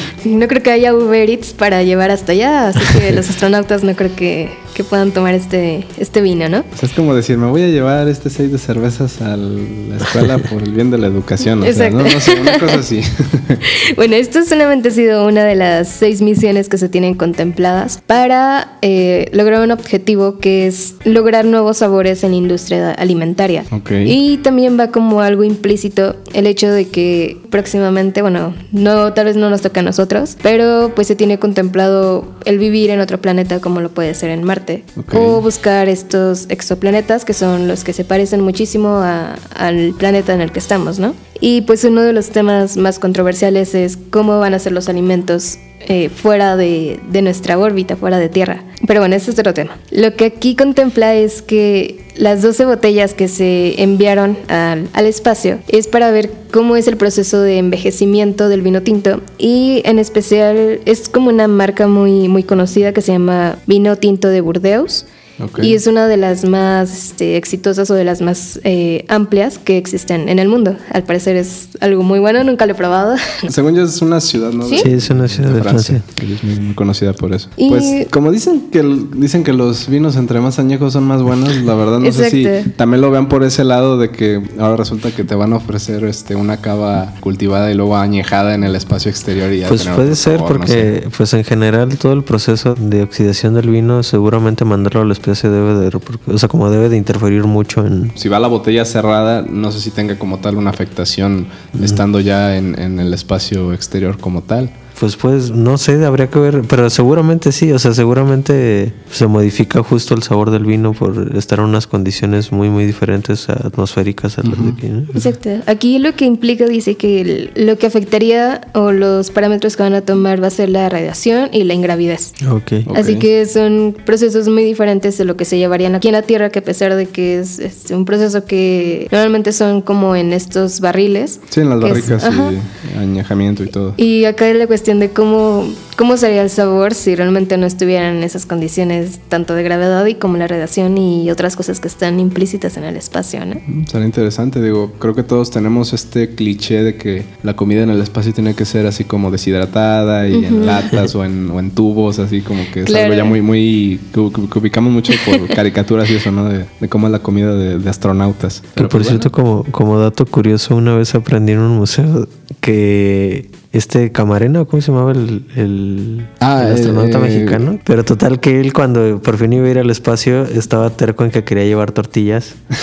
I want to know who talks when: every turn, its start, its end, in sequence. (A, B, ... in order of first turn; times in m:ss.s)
0:00.2-0:06.7 A
0:06.7-0:13.6 B
0:11.6-0:12.8 A
0:13.7-1:05.1 A
0:23.7-0:24.2 B
0:35.0-0:35.4 B
1:05.4-1:05.8 B
1:05.6-1:13.4 A
1:13.4-1:30.9 B
1:14.8-1:16.0 C
1:17.6-1:18.1 A
1:22.0-1:22.7 A
1:29.6-1:38.1 C
1:38.2-1:44.7 B
1:45.0-1:55.2 C
1:54.4-1:54.8 B
1:55.1-2:02.4 A
2:02.4-2:02.9 C
2:02.8-2:03.2 B
2:02.9-2:12.5 A
2:11.5-2:14.0 B
2:14.0-2:23.6 A
2:23.7-2:39.3 B
2:30.3-2:30.8 A
2:32.8-2:33.4 A
2:38.8-2:52.6 C
2:46.4-2:47.7 B